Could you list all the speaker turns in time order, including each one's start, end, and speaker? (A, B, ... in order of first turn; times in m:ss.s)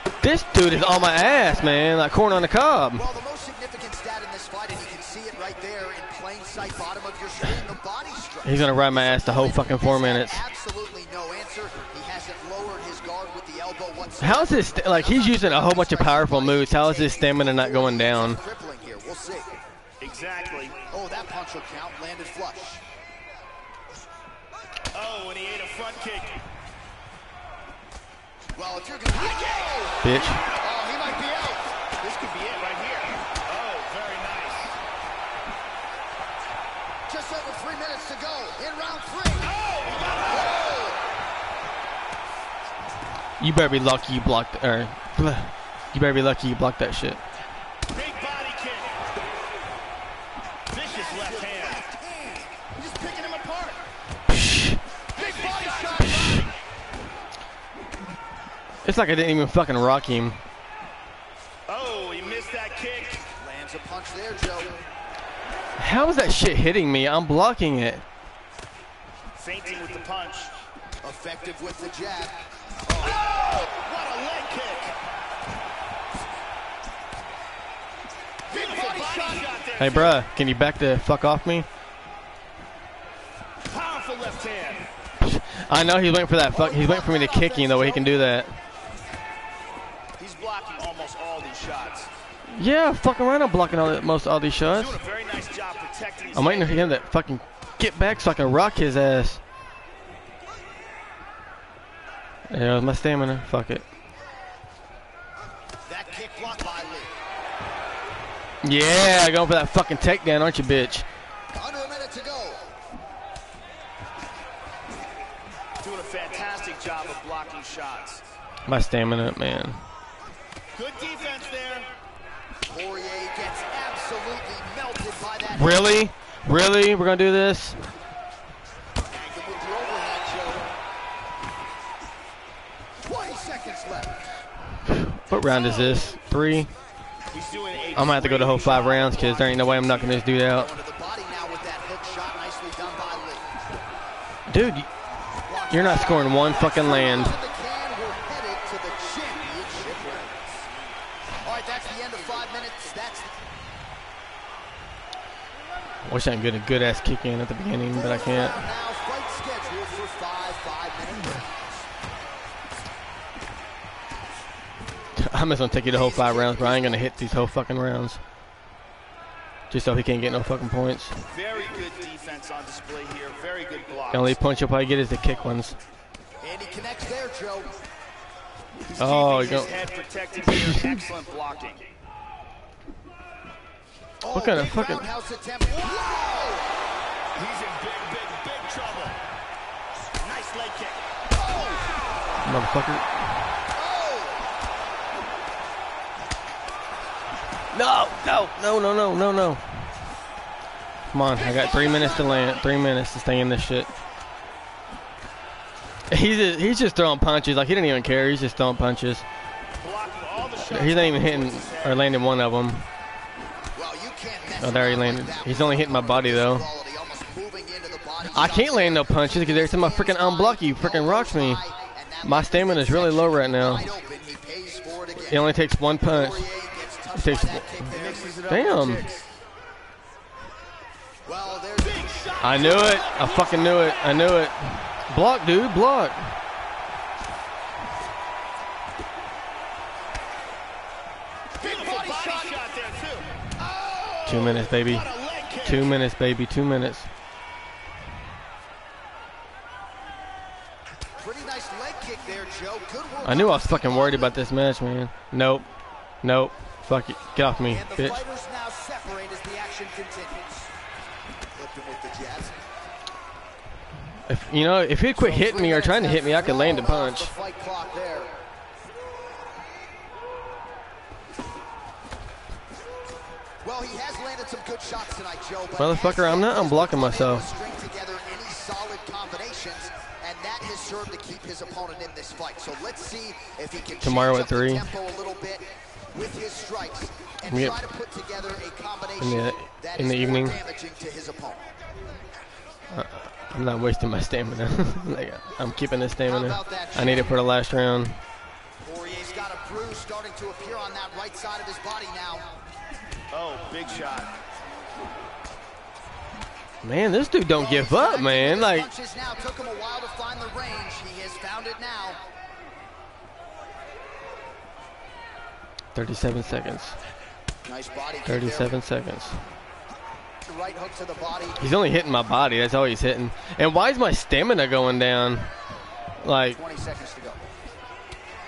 0:00.2-0:03.0 A
0:00.7-0:02.0 B
0:03.0-0:19.6 B
0:08.4-0:10.4 A
0:14.2-0:18.4 A
0:20.0-0:20.8 C
0:20.9-0:22.8 B
0:24.9-0:26.4 C
0:28.6-0:31.7 B
0:30.0-0:30.4 A
0:32.0-0:34.8 C
0:37.1-0:41.0 B
0:39.5-0:40.5 C
0:43.4-0:47.2 A
0:47.9-0:49.0 C
0:50.7-0:51.8 C
0:50.9-0:52.5 B
0:52.8-0:53.9 C
0:54.3-0:54.8 A
0:55.2-0:56.5 B
0:55.2-0:56.5 C
0:58.8-1:00.4 A
1:01.7-1:03.2 C
1:03.4-1:04.8 B
1:05.8-1:08.0 A
1:09.4-1:10.6 C
1:11.0-1:13.2 B
1:13.0-1:15.0 C
1:18.5-1:19.5 B
1:18.5-1:20.2 C
1:19.8-1:21.7 A
1:23.7-1:24.9 C
1:25.2-1:28.6 A
1:26.5-1:28.2 B
1:27.0-1:27.6 C
1:30.2-1:32.1 C
1:32.5-1:35.0 A
1:34.7-1:37.0 C
1:36.4-1:39.4 A
1:42.5-1:43.8 A
1:45.9-1:47.1 B
1:48.6-1:51.1 A
1:51.5-1:52.7 B
1:55.8-1:58.2 C
1:58.7-1:59.8 A
2:00.8-2:01.9 C
2:02.7-2:06.0 B
2:05.5-2:07.8 A
2:09.1-2:10.7 B
2:13.0-2:14.3 B
2:14.8-2:16.7 A
2:15.4-2:16.1 B
2:17.3-2:19.9 C
2:18.0-2:20.7 A
2:20.3-2:23.5 B
2:24.5-2:24.9 A
2:25.5-2:30.5 B
2:25.7-2:27.4 A
2:31.4-2:33.3 B
2:36.0-2:38.7 A
2:37.9-2:41.9 B
2:45.2-2:48.2 A
2:45.7-2:47.4 B
2:49.7-2:51.2 A
2:51.3-2:54.4 C
2:54.1-2:55.8 A
2:56.4-2:57.7 B
2:58.9-3:01.8 C
2:59.0-2:59.7 A
3:00.5-3:00.9 A
3:04.2-3:06.7 B
3:04.3-3:05.1 A
3:07.4-3:09.2 C
3:10.2-3:11.0 C
3:11.3-3:12.0 B
3:12.4-3:13.3 A
3:13.8-3:14.4 B
3:17.7-3:19.6 A
3:21.1-3:23.9 A
3:21.3-3:22.8 C
3:26.1-3:29.2 A
3:29.8-3:32.1 C
3:30.7-3:32.9 A
3:33.8-3:48.4 B
3:34.6-3:36.7 A
3:38.3-3:41.6 A
3:42.2-3:43.9 A
3:45.3-3:46.5 A
3:47.2-3:47.8 A
3:47.9-3:49.3 C
3:48.5-3:49.0 A
3:51.3-3:52.3 B
3:51.8-3:54.4 C
3:52.4-3:56.3 A
4:01.6-4:02.6 B
4:01.6-4:03.5 C
4:03.6-4:04.4 B
4:04.3-4:05.1 A
4:04.3-4:06.0 C
4:05.6-4:07.1 A
4:11.2-4:14.4 B
4:13.2-4:15.7 A
4:16.2-4:18.2 A
4:17.7-4:20.7 B
4:21.6-4:22.6 B
4:24.3-4:27.3 A
4:25.2-4:28.4 B
4:33.6-4:51.7 B
4:35.8-4:37.5 A
4:44.0-4:44.9 A
4:47.5-4:47.8 A
4:49.2-4:50.6 A
4:52.9-4:58.2 A
4:56.2-4:57.4 B
4:58.8-5:02.5 B
5:03.3-5:04.4 C
5:06.8-5:08.9 A
5:07.6-5:12.2 B
5:16.0-5:17.0 A
5:17.7-5:18.8 B
5:18.3-5:19.4 A
5:20.5-5:21.7 B
5:21.6-5:25.5 A
5:26.2-5:26.6 A
5:26.5-5:27.4 B